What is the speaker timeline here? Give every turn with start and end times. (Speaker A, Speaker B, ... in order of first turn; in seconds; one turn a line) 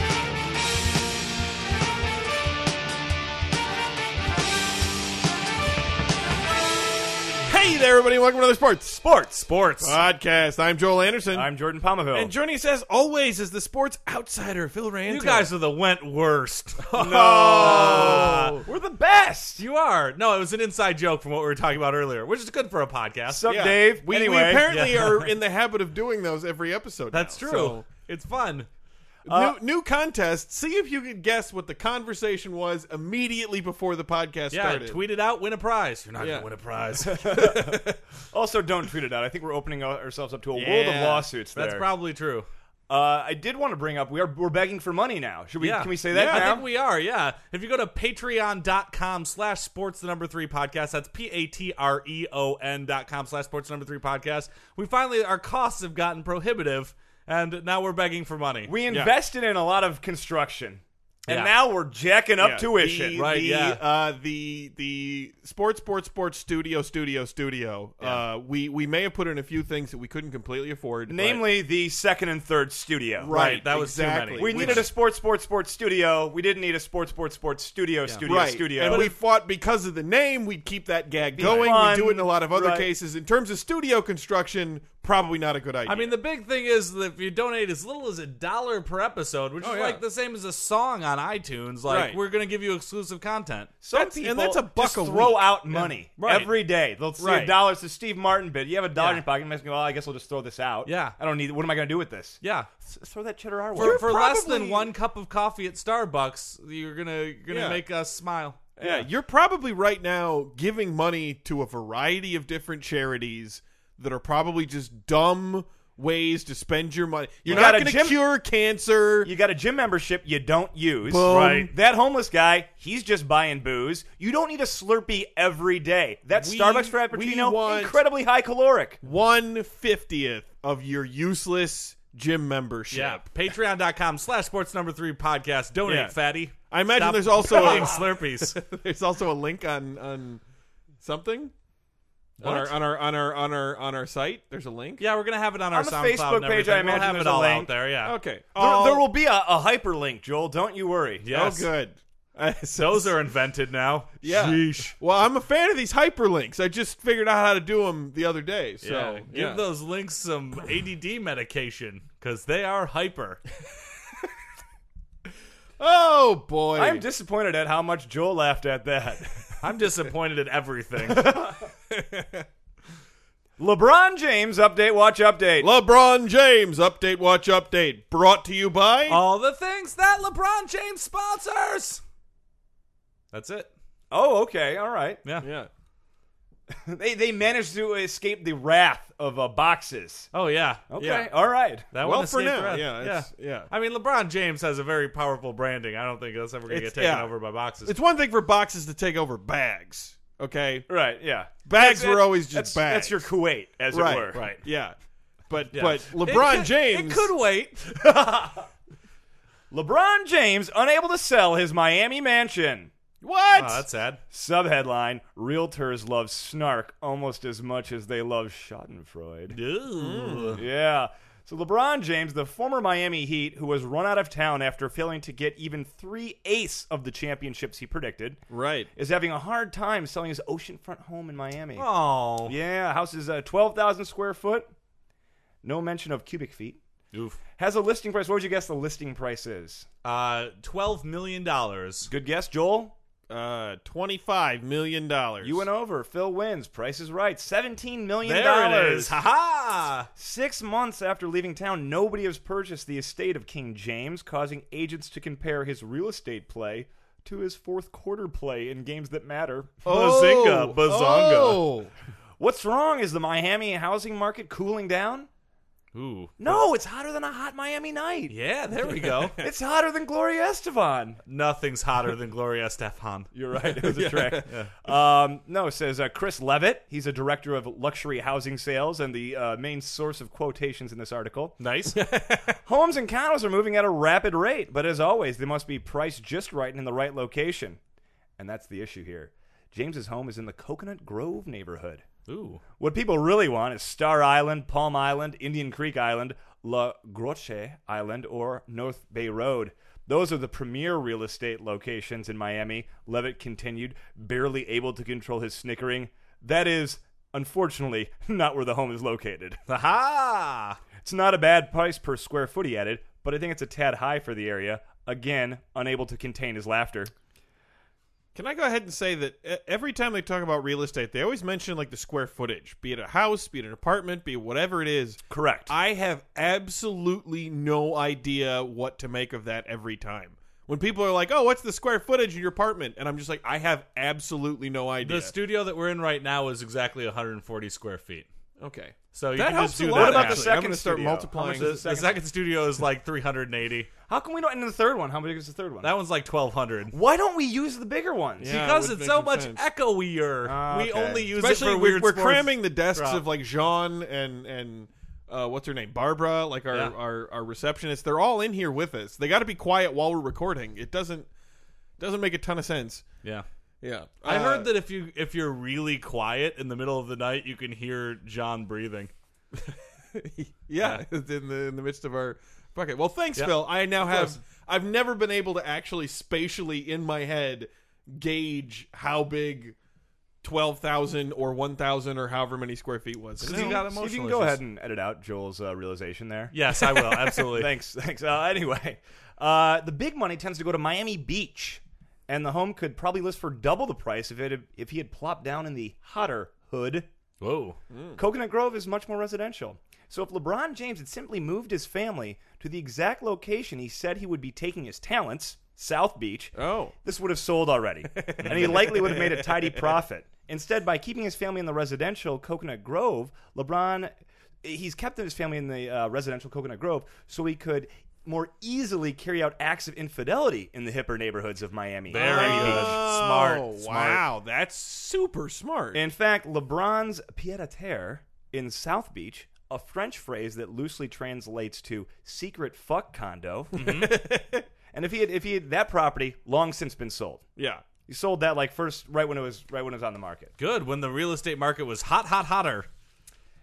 Speaker A: 7.5-9.0
Speaker B: 9.0-9.5
Speaker C: 9.4-10.0
Speaker A: 9.8-11.5
Speaker B: 11.3-12.3
Speaker A: 12.1-15.5
Speaker C: 15.1-16.8
Speaker A: 16.8-18.6
Speaker B: 16.9-19.6
Speaker C: 17.5-18.6
Speaker C: 19.6-23.4
Speaker B: 23.3-25.1
Speaker A: 23.4-27.8
Speaker C: 24.7-25.2
Speaker C: 27.1-28.7
Speaker B: 29.2-29.6
Speaker A: 29.2-35.0
Speaker C: 34.5-37.5
Speaker A: 36.2-36.5
Speaker B: 37.0-41.9
Speaker A: 37.4-38.0
Speaker A: 40.5-41.3
Speaker C: 41.5-42.5
Speaker B: 42.9-46.6
Speaker C: 45.6-58.7
Speaker A: 46.1-46.6
Speaker B: 58.6-63.3
Speaker C: 61.3-61.5
Speaker A: 62.4-71.4
Speaker C: 63.1-63.8
Speaker B: 71.1-73.3
Speaker A: 73.2-74.9
Speaker C: 73.3-74.8
Speaker B: 74.4-79.1
Speaker C: 78.0-79.1
Speaker A: 78.2-86.1
Speaker B: 81.4-82.9
Speaker C: 81.4-81.7
Speaker C: 85.8-93.7
Speaker A: 89.6-90.0
Speaker A: 91.9-92.2
Speaker B: 93.8-104.0
Speaker A: 93.9-95.9
Speaker C: 96.2-96.5
Speaker A: 97.2-97.5
Speaker C: 100.8-101.2
Speaker C: 102.4-102.7
Speaker A: 103.8-104.9
Speaker C: 103.8-108.6
Speaker A: 107.5-107.8
Speaker A: 108.8-119.3
Speaker B: 117.5-118.2
Speaker B: 119.2-129.0
Speaker A: 121.0-121.7
Speaker C: 121.3-121.7
Speaker A: 126.3-128.0
Speaker A: 129.0-133.3
Speaker C: 132.9-138.6
Speaker A: 135.8-140.4
Speaker B: 137.5-137.9
Speaker A: 141.0-141.5
Speaker C: 142.4-142.8
Speaker A: 142.4-145.0
Speaker C: 145.0-148.1
Speaker B: 145.7-147.7
Speaker A: 148.0-149.0
Speaker B: 148.6-151.2
Speaker C: 151.2-151.7
Speaker A: 151.3-153.2
Speaker C: 152.8-154.9
Speaker A: 154.2-159.7
Speaker C: 158.8-163.4
Speaker A: 165.8-167.0
Speaker B: 166.7-169.6
Speaker C: 169.6-171.3
Speaker A: 171.1-172.4
Speaker B: 171.2-171.7
Speaker B: 173.6-175.7
Speaker A: 175.6-179.2
Speaker C: 179.1-182.0
Speaker C: 183.3-183.7
Speaker B: 184.1-185.2
Speaker A: 185.4-185.7
Speaker B: 186.7-190.3
Speaker C: 190.3-190.9
Speaker B: 190.9-191.9
Speaker A: 191.0-191.3
Speaker C: 191.9-197.9
Speaker A: 192.0-193.7
Speaker A: 196.7-200.9
Speaker B: 200.9-204.4
Speaker A: 201.6-203.3
Speaker A: 203.9-204.9
Speaker C: 204.3-204.6
Speaker A: 205.5-207.3
Speaker C: 205.7-208.0
Speaker B: 207.9-208.7
Speaker B: 209.7-212.9
Speaker A: 213.2-213.8
Speaker C: 213.5-214.2
Speaker B: 214.3-219.6
Speaker C: 219.5-220.6
Speaker A: 219.9-220.6
Speaker B: 220.6-228.4
Speaker A: 228.5-228.9
Speaker B: 228.9-231.9
Speaker C: 231.8-232.5
Speaker B: 232.4-234.7
Speaker B: 235.6-236.8
Speaker C: 237.1-237.4
Speaker B: 237.6-239.8
Speaker C: 240.0-242.1
Speaker B: 242.1-242.9
Speaker A: 243.3-245.7
Speaker B: 245.4-249.2
Speaker C: 248.2-250.1
Speaker B: 250.2-259.9
Speaker C: 259.8-261.6
Speaker A: 259.8-261.9
Speaker B: 262.4-265.3
Speaker C: 265.9-266.6
Speaker B: 266.4-268.3
Speaker C: 268.3-269.4
Speaker A: 268.8-269.3
Speaker B: 269.4-271.2
Speaker C: 271.3-273.3
Speaker B: 273.3-281.6
Speaker A: 273.6-274.5
Speaker C: 274.4-274.7
Speaker C: 281.6-281.9
Speaker A: 281.9-282.6
Speaker B: 282.6-287.8
Speaker B: 288.4-292.0
Speaker C: 292.3-292.6
Speaker B: 292.8-309.6
Speaker C: 309.7-310.8
Speaker B: 311.0-317.1
Speaker A: 318.3-335.3
Speaker B: 325.3-325.7
Speaker C: 335.0-338.3
Speaker A: 338.6-341.8
Speaker C: 339.1-340.6
Speaker B: 339.9-342.2
Speaker C: 341.5-343.9
Speaker B: 344.1-345.9
Speaker C: 345.8-346.9
Speaker B: 346.9-348.6
Speaker A: 348.4-349.6
Speaker C: 348.4-353.2
Speaker B: 350.4-351.3
Speaker A: 351.4-361.3
Speaker A: 362.0-363.0
Speaker A: 363.8-364.7
Speaker C: 364.2-369.1
Speaker A: 369.6-379.7
Speaker C: 370.8-371.0
Speaker C: 373.4-374.4
Speaker A: 380.4-383.8
Speaker C: 383.4-384.6
Speaker B: 383.4-397.1
Speaker C: 386.5-387.7
Speaker C: 397.4-397.8
Speaker A: 397.9-398.2
Speaker B: 398.1-414.1
Speaker A: 406.6-406.9
Speaker A: 408.1-410.0
Speaker C: 408.4-408.8
Speaker B: 414.6-423.0
Speaker C: 422.1-424.2
Speaker A: 422.1-426.0
Speaker B: 425.9-433.9
Speaker A: 433.7-434.6
Speaker C: 433.7-434.1
Speaker B: 434.9-437.4
Speaker A: 437.6-437.8
Speaker B: 438.1-440.5
Speaker C: 440.6-442.9